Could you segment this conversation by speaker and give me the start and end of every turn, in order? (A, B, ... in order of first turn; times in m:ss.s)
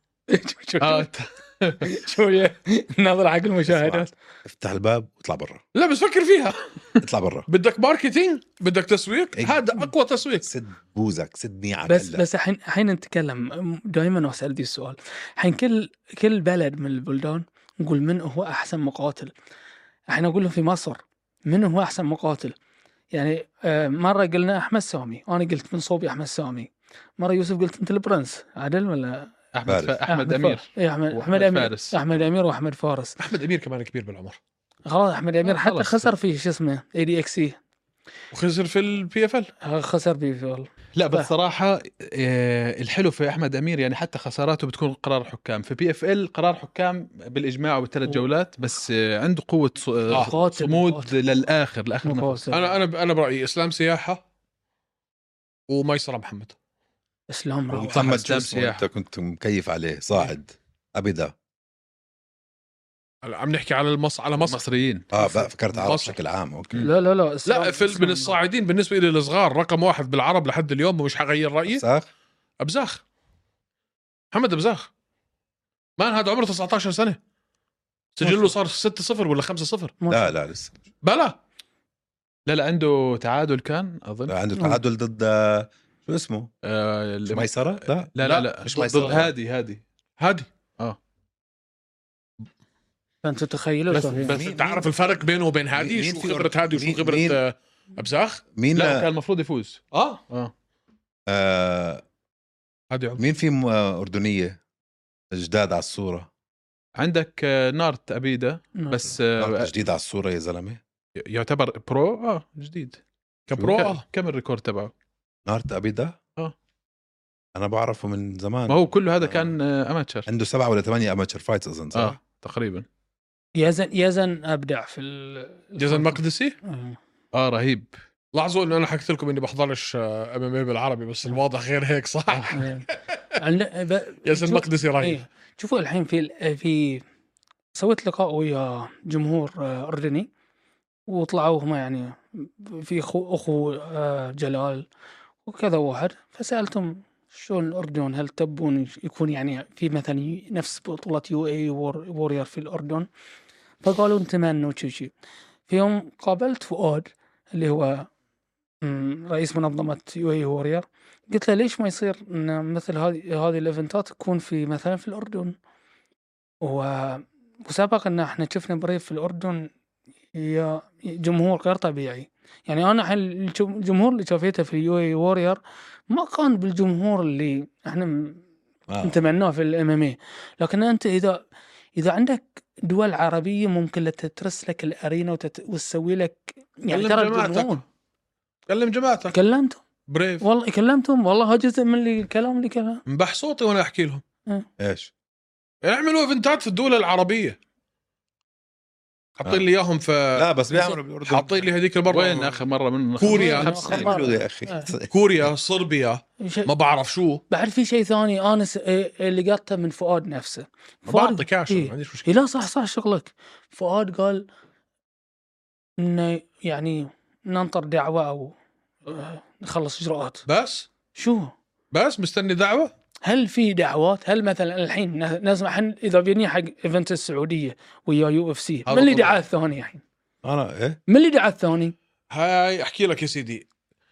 0:00.3-0:01.1 A
0:00.8-0:01.9 B
0:01.8-0:04.1 A
0:03.7-0:05.6 C
0:05.8-0:06.6 D
0:07.0-0:07.5 C
0:07.5-0:10.5 D
0:09.4-0:09.6 C
0:10.4-0:12.2 C
0:11.9-0:19.3 A
0:20.1-0:22.6 A
0:23.1-0:29.3 A
0:29.5-0:32.0 B
0:29.7-0:30.0 C
0:30.1-0:33.2 A
0:33.2-0:34.4 D
0:34.9-0:37.6 A
0:35.4-0:36.1 B
0:38.3-0:39.5 D
0:39.6-0:41.3 A
0:41.0-0:52.5 B
0:50.1-0:51.1 A
0:52.0-0:52.7 A
0:52.5-0:54.2 D
0:55.7-0:56.6 D
0:57.3-0:58.1 A
0:57.7-1:01.3 C
0:57.9-0:58.8 B
1:03.2-1:04.6 D
1:04.4-1:05.1 B
1:05.1-1:06.9 C
1:05.2-1:06.2 D
1:06.8-1:08.4 A
1:07.5-1:11.8 D
1:11.7-1:12.1 C
1:12.6-1:13.0 D
1:14.3-1:14.9 D
1:16.0-1:17.2 D
1:18.2-1:20.0 D
1:20.0-1:20.4 A
1:20.1-1:20.7 C
1:21.0-1:21.4 D
1:22.5-1:24.4 B
1:24.3-1:26.5 C
1:24.6-1:24.8 A
1:26.6-1:29.8 B
1:27.3-1:29.3 C
1:28.2-1:29.2 D
1:30.2-1:30.5 D
1:33.2-1:34.4 A
1:33.9-1:38.4 D
1:34.1-1:34.9 C
1:35.8-1:37.4 C
1:38.6-1:39.1 C
1:38.7-1:40.5 B
1:39.9-1:40.2 D
1:41.3-1:42.0 C
1:42.9-1:43.2 D
1:43.2-1:44.6 C
1:45.3-1:46.3 C
1:47.0-1:49.7 B
1:48.8-1:49.2 A
1:49.4-1:50.8 C
1:51.2-1:53.0 B
1:53.5-1:54.0 D
1:53.6-1:54.9 B
1:55.5-1:56.2 C
1:57.6-1:59.6 C
1:58.7-2:00.3 B
2:00.3-2:02.2 C
2:01.9-2:02.9 B
2:03.6-2:07.0 A
2:05.8-2:06.6 D
2:07.3-2:07.9 B
2:08.3-2:12.8 D
2:12.3-2:12.6 B
2:12.5-2:12.9 A
2:13.4-2:17.0 A
2:14.2-2:15.2 D
2:17.8-2:20.3 A
2:21.1-2:24.9 A
2:25.5-2:33.1 A
2:33.8-2:35.1 A
2:35.7-2:38.1 A
2:38.8-2:45.6 A
2:46.6-2:49.7 A
2:50.4-2:58.4 A
2:58.9-2:59.2 C
2:59.0-3:01.4 A
3:02.0-3:07.8 A
3:06.9-3:07.8 D
3:08.7-3:09.4 D
3:09.3-3:09.8 A
3:10.1-3:10.5 D
3:10.4-3:13.0 A
3:13.1-3:14.2 D
3:14.8-3:15.1 C
3:15.8-3:17.6 D
3:19.4-3:22.6 D
3:20.4-3:21.7 C
3:22.1-3:24.1 B
3:23.2-3:24.1 D
3:23.3-3:24.9 A
3:23.8-3:25.5 C
3:25.1-3:27.4 D
3:26.4-3:26.7 A
3:27.5-3:34.5 A
3:31.1-3:32.3 D
3:36.0-3:38.6 A
3:39.1-3:40.4 A
3:40.5-3:40.9 D
3:41.2-3:41.5 A
3:41.9-3:42.9 D
3:43.2-3:50.0 A
3:48.9-3:49.4 D
3:50.4-3:51.0 C
3:51.1-3:52.0 A
3:52.3-3:53.7 D